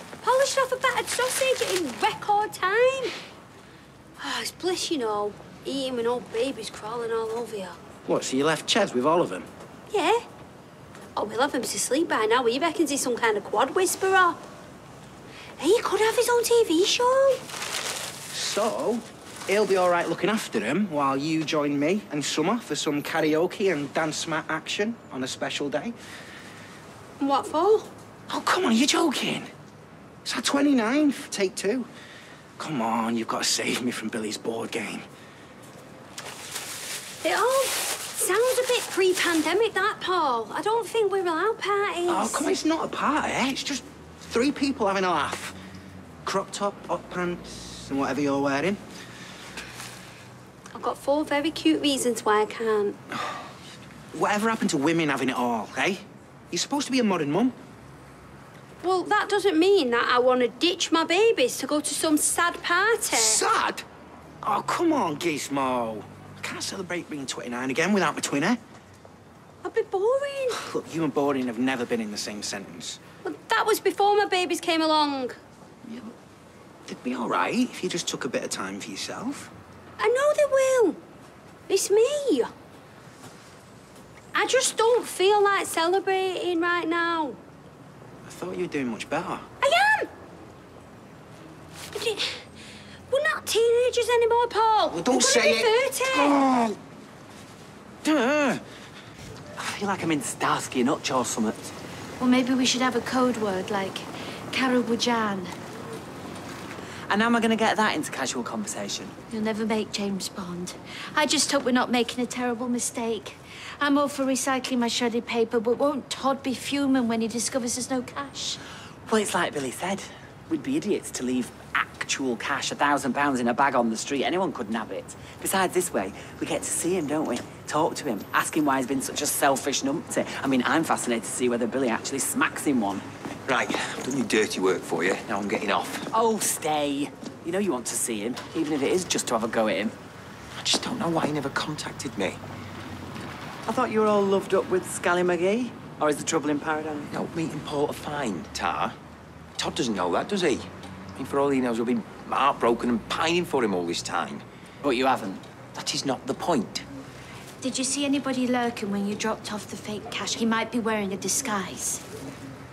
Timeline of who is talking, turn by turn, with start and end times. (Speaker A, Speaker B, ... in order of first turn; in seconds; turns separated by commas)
Speaker A: 0.2-3.1, Speaker A: 4.2-7.8, Speaker B: 8.1-9.5, Speaker A: 9.9-10.2, Speaker A: 11.2-14.4, Speaker A: 15.6-17.4, Speaker B: 18.3-25.9, Speaker A: 27.2-27.9, Speaker B: 28.3-29.5, Speaker B: 30.2-31.9, Speaker B: 32.6-35.0, Speaker A: 37.2-42.5, Speaker B: 42.1-45.6, Speaker B: 46.2-48.8, Speaker A: 50.8-53.0, Speaker B: 54.1-57.5, Speaker A: 58.8-63.4, Speaker B: 63.1-63.8, Speaker B: 64.4-68.6, Speaker A: 69.6-70.6, Speaker B: 70.5-73.0, Speaker A: 73.2-75.3, Speaker B: 75.8-76.1, Speaker B: 76.9-79.5, Speaker A: 80.0-81.0, Speaker A: 81.7-82.5, Speaker A: 84.3-87.4, Speaker B: 88.2-89.5, Speaker A: 89.6-90.1, Speaker A: 91.9-92.4, Speaker A: 93.1-96.4, Speaker B: 94.9-96.8, Speaker B: 98.0-98.6, Speaker C: 99.6-101.7, Speaker D: 102.2-105.5, Speaker C: 107.1-109.1, Speaker D: 109.3-118.6, Speaker C: 119.1-133.1, Speaker E: 133.5-136.1, Speaker C: 136.1-139.9, Speaker E: 140.6-142.4, Speaker C: 143.7-147.1, Speaker E: 147.1-148.9, Speaker E: 149.6-154.4, Speaker C: 154.8-155.4, Speaker E: 155.8-156.8, Speaker D: 157.6-162.0